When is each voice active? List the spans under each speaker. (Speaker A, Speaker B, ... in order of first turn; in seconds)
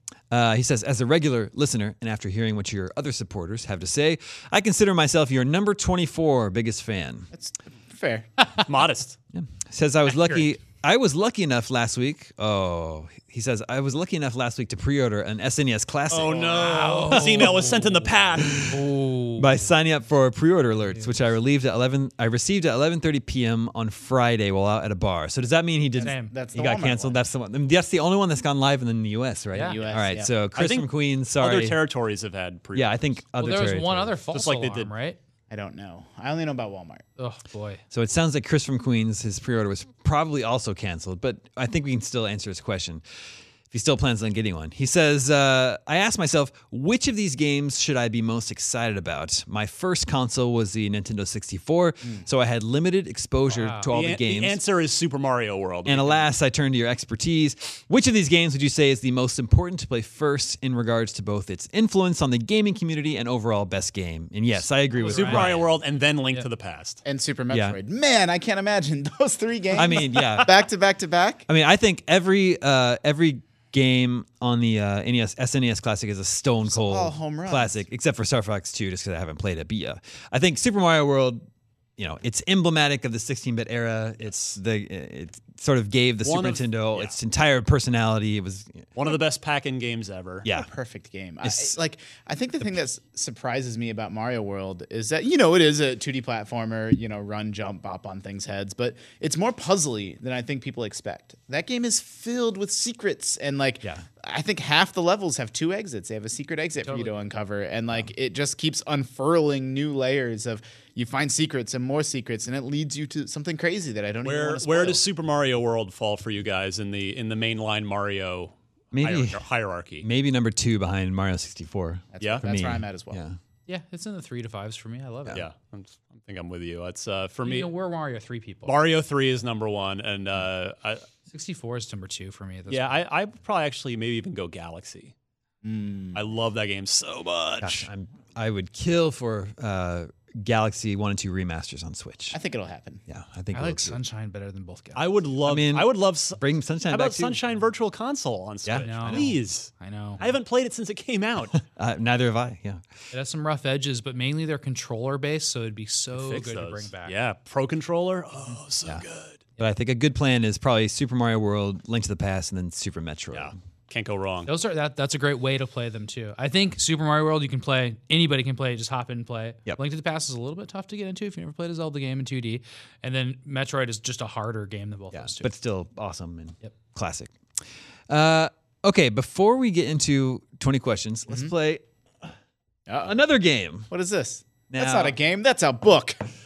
Speaker A: 0.3-7.3, 9.3-18.8, 19.4-31.8, 32.7-34.1, 37.9-43.0, 43.7-54.6, 55.9-65.7, 67.5-67.8, 69.7-70.6, 71.5-81.4, 82.0-88.9, 90.4-90.7, 91.4-91.8, 118.9-119.4, 120.0-123.4, 137.6-142.4, 143.1-144.0, 145.4-147.4, 148.6-149.3, 151.6-152.8, 159.6-163.5, 175.1-177.3, 178.1-182.3, 183.0-183.9, 184.7-185.2
Speaker B: 7.3-8.3, 25.9-27.2, 29.6-30.3, 35.5-37.0, 67.0-71.5, 76.7-77.8, 90.5-115.0, 122.1-123.2, 135.6-136.2, 142.3-143.0, 182.9-183.2, 183.9-186.2
Speaker C: 8.6-9.2, 16.1-18.7, 30.5-33.1, 34.3-34.9, 53.9-56.3, 65.0-67.0, 86.2-87.1, 88.9-90.5, 114.2-120.0, 122.2-122.4, 125.3-127.7, 128.7-131.1, 132.7-135.1, 136.1-137.9, 144.9-151.6, 156.1-159.4, 163.3-164.5
Speaker D: 16.5-17.8, 18.7-19.5, 26.0-26.3, 29.5-29.8, 33.4-35.2, 37.2-37.8, 53.5-53.9, 65.0-65.5, 106.8-107.2, 123.7-125.5, 127.4-128.8, 131.3-133.0, 143.5-145.1, 148.8-150.2, 153.1-157.1, 164.4-175.5